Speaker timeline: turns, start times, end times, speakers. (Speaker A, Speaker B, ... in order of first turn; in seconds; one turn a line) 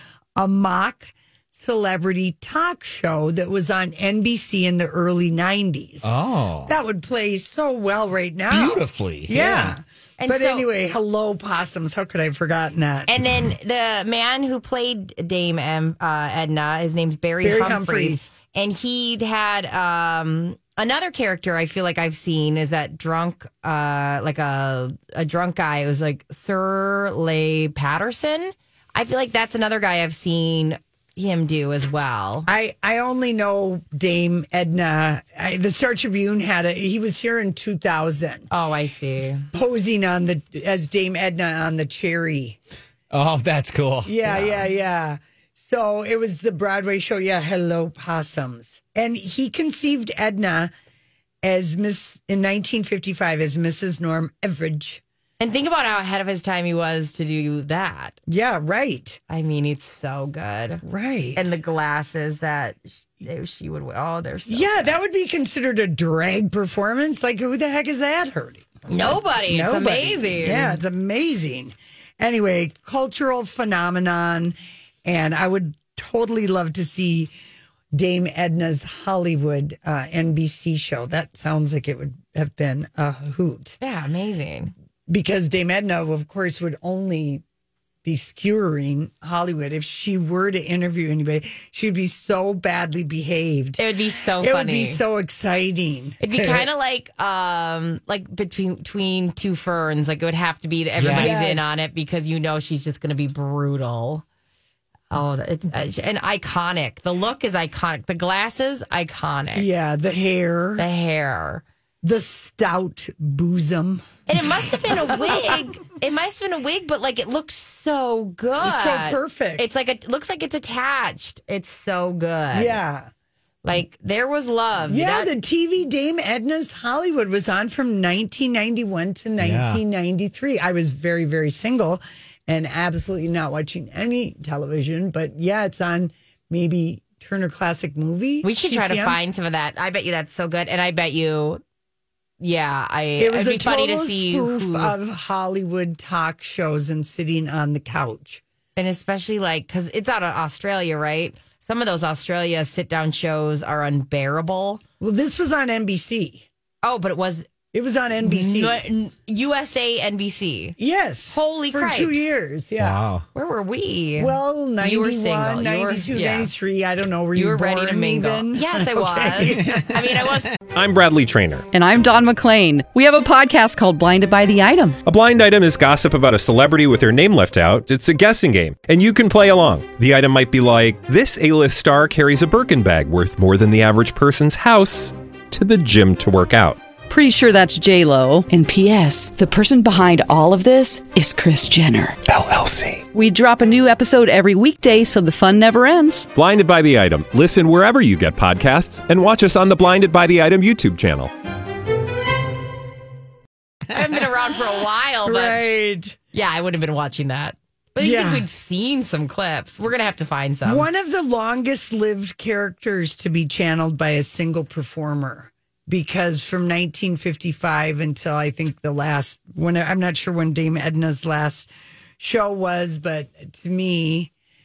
Speaker A: 0.4-6.1
Speaker B: 6.0-6.7
Speaker A: 6.7-13.1
Speaker B: 8.5-9.8
Speaker C: 10.2-10.7
Speaker C: 13.1-32.5
Speaker A: 17.4-18.3
Speaker A: 32.5-38.5
Speaker C: 38.5-39.5
Speaker A: 39.3-42.6
Speaker B: 43.1-44.7
Speaker A: 44.0-50.7
Speaker A: 51.4-55.0
Speaker C: 55.4-58.2
Speaker A: 58.3-59.2
Speaker C: 59.3-60.8
Speaker A: 60.8-61.5
Speaker C: 61.4-65.0
Speaker A: 64.5-77.3
Speaker C: 68.9-70.8
Speaker A: 77.9-83.8
Speaker C: 83.8-84.7
Speaker A: 85.1-87.4
Speaker A: 88.0-93.8
Speaker C: 93.8-95.0
Speaker A: 94.3-96.7
Speaker C: 96.2-104.2
Speaker B: 101.0-101.4
Speaker A: 101.1-101.7
Speaker C: 105.1-109.7
Speaker A: 109.5-110.8
Speaker C: 110.8-111.6
Speaker A: 112.0-115.6
Speaker C: 114.3-122.8
Speaker A: 118.6-119.7
Speaker A: 122.5-123.1
Speaker C: 123.6-125.3
Speaker A: 124.9-139.2
Speaker B: 129.4-129.8
Speaker C: 138.4-141.6
Speaker C: 142.4-144.9
Speaker A: 143.2-148.4
Speaker C: 148.8-154.8
Speaker A: 155.0-156.5
Speaker C: 156.8-157.5
Speaker A: 157.7-158.8
Speaker C: 158.2-160.8
Speaker A: 160.8-163.0
Speaker C: 161.3-162.3
Speaker B: 162.8-163.2
Speaker C: 163.3-166.5
Speaker A: 164.2-169.8
Speaker C: 167.3-170.5
Speaker D: 170.6-171.7
Speaker E: 171.7-175.0
Speaker D: 175.1-186.8
Speaker E: 187.1-196.3
Speaker D: 196.3-201.3
Speaker C: 203.9-205.6
Speaker A: 205.2-206.2
Speaker C: 206.3-210.9
Speaker A: 208.0-208.4
Speaker A: 210.6-224.3